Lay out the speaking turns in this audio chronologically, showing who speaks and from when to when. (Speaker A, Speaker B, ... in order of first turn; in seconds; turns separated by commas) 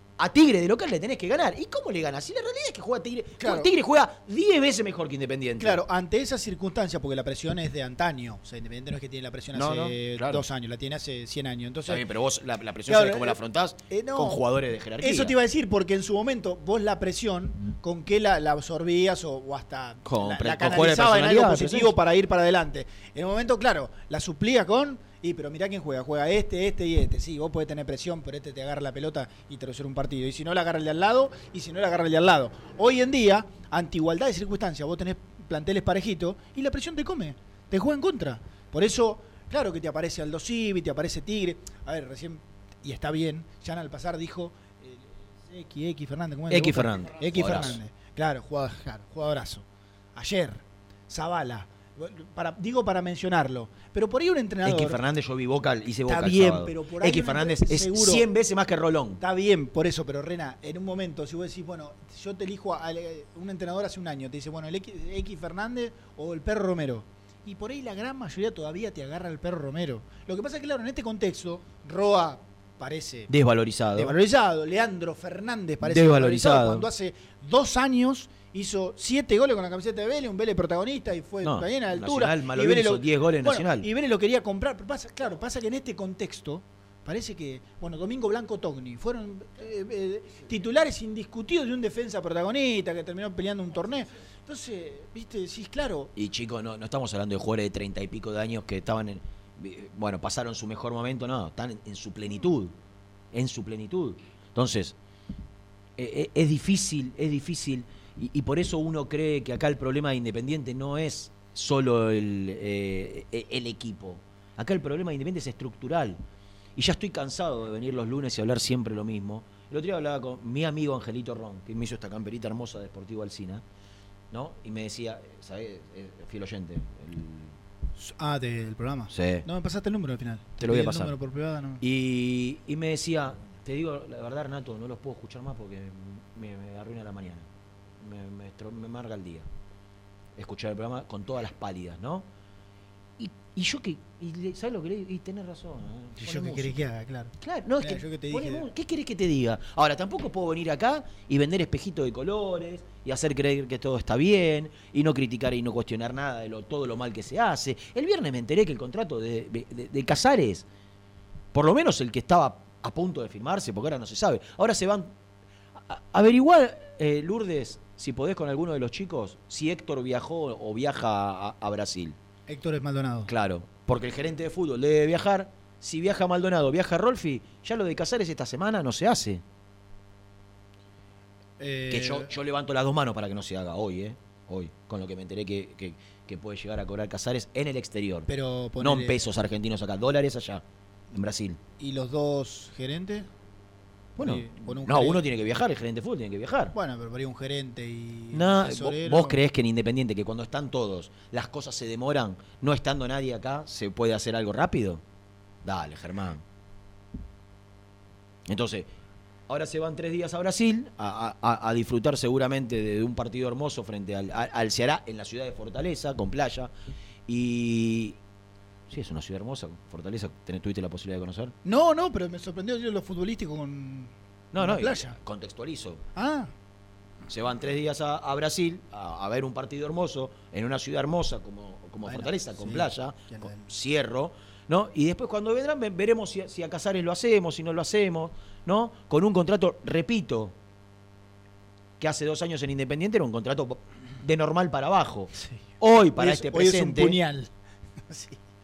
Speaker A: 0.2-5.8, Speaker B: 3.4-3.7, Speaker B: 5.6-12.0, Speaker A: 9.5-10.4, Speaker A: 11.9-15.3, Speaker B: 12.9-13.4, Speaker B: 13.9-14.4, Speaker B: 15.0-55.0, Speaker A: 20.0-21.9, Speaker A: 46.5-47.8, Speaker A: 54.6-59.2, Speaker B: 56.1-58.2, Speaker B: 59.2-73.3, Speaker A: 73.3-74.1, Speaker B: 73.9-96.1, Speaker A: 75.8-76.9, Speaker A: 81.4-83.9, Speaker A: 96.2-102.7, Speaker A: 103.3-105.0, Speaker A: 106.0-116.2, Speaker A: 116.8-123.6, Speaker A: 124.3-127.5, Speaker B: 128.0-131.8, Speaker A: 129.1-129.4, Speaker A: 130.6-131.1, Speaker A: 131.8-137.5, Speaker A: 138.0-139.5, Speaker A: 140.4-142.3, Speaker A: 143.2-146.8, Speaker B: 146.2-148.7, Speaker A: 147.4-160.7, Speaker A: 161.5-165.1, Speaker A: 165.9-172.2, Speaker B: 172.5-173.3, Speaker A: 173.2-179.4, Speaker B: 181.6-182.3, Speaker A: 181.9-188.3, Speaker B: 188.3-189.2, Speaker A: 188.8-191.6, Speaker B: 191.8-193.3, Speaker B: 194.2-195.2, Speaker A: 194.2-196.7, Speaker B: 196.7-199.4, Speaker A: 198.3-205.0, Speaker A: 205.6-206.4, Speaker A: 208.5-208.9, Speaker A: 209.5-216.7, Speaker A: 217.3-218.2, Speaker A: 218.9-221.5, Speaker B: 221.6-225.2, Speaker A: 224.5-226.0, Speaker B: 226.1-226.5, Speaker A: 227.3-240.5, Speaker B: 232.1-233.7, Speaker A: 242.0-247.2, Speaker B: 245.3-245.6, Speaker B: 246.2-247.5, Speaker B: 248.1-248.4